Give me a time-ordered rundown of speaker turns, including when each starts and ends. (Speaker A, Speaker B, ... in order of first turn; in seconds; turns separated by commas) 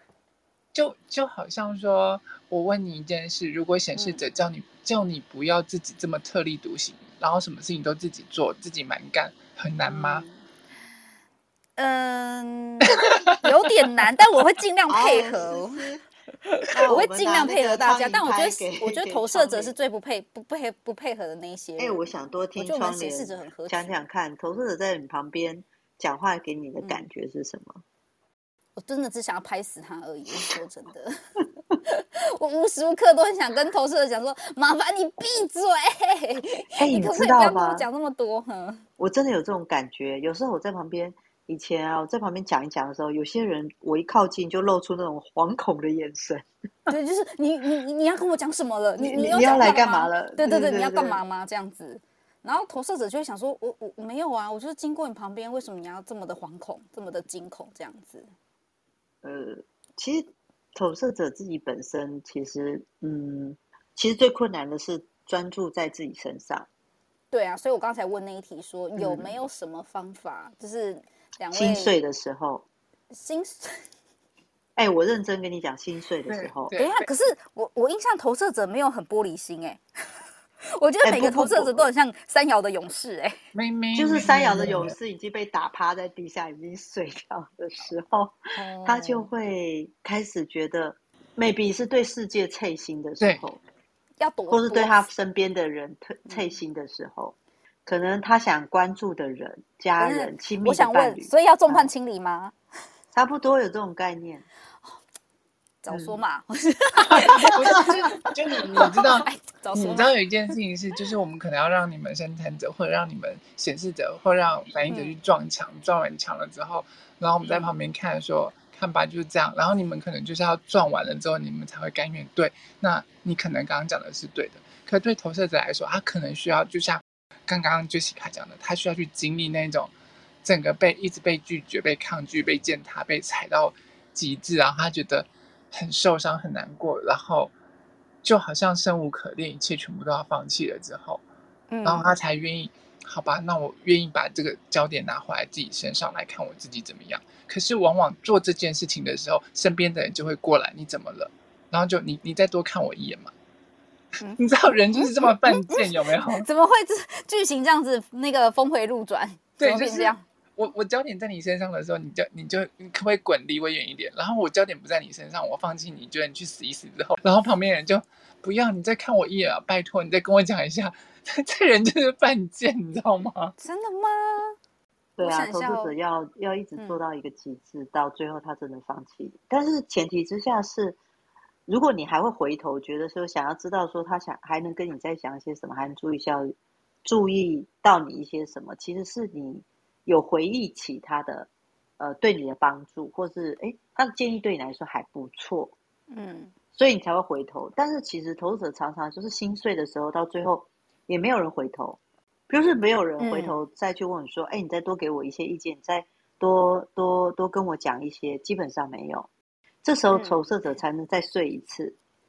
Speaker A: 0.7-10.2, Speaker B: 4.0-4.2, Speaker B: 9.8-10.4, Speaker B: 11.8-15.8, Speaker A: 12.8-13.4, Speaker C: 14.9-16.0, Speaker C: 16.7-19.7, Speaker B: 16.9-22.1, Speaker C: 21.8-27.8, Speaker B: 22.6-24.0, Speaker B: 28.8-31.1, Speaker B: 31.8-38.8, Speaker C: 36.8-37.9, Speaker C: 39.0-46.4, Speaker B: 46.9-58.3, Speaker C: 49.0-51.2, Speaker C: 59.2-66.7, Speaker B: 67.3-71.9, Speaker C: 69.0-69.3, Speaker C: 71.5-72.7, Speaker B: 73.1-73.7, Speaker C: 74.8-76.7, Speaker A: 76.3-77.0, Speaker B: 76.7-79.8, Speaker B: 80.8-83.4, Speaker C: 81.0-81.9, Speaker A: 83.5-84.9, Speaker C: 83.9-93.6, Speaker B: 88.5-89.3, Speaker A: 93.2-93.5, Speaker B: 94.2-95.0, Speaker C: 94.5-97.3, Speaker C: 97.8-101.9, Speaker B: 100.0-102.5, Speaker C: 103.1-104.5, Speaker B: 105.8-110.1, Speaker C: 105.9-106.1, Speaker A: 107.1-129.9, Speaker B: 114.9-115.2, Speaker B: 117.4-117.7, Speaker A: 130.4-137.5, Speaker A: 138.2-141.2, Speaker B: 141.7-142.1, Speaker A: 141.8-153.3, Speaker B: 154.2-160.2, Speaker A: 154.4-156.4, Speaker A: 159.6-173.5, Speaker B: 173.6-174.6, Speaker C: 175.2-181.0, Speaker B: 175.2-175.9, Speaker B: 176.8-177.0, Speaker C: 181.7-195.7, Speaker B: 196.1-196.5, Speaker C: 196.7-209.3, Speaker B: 203.2-203.6, Speaker C: 209.8-212.0, Speaker B: 210.1-210.4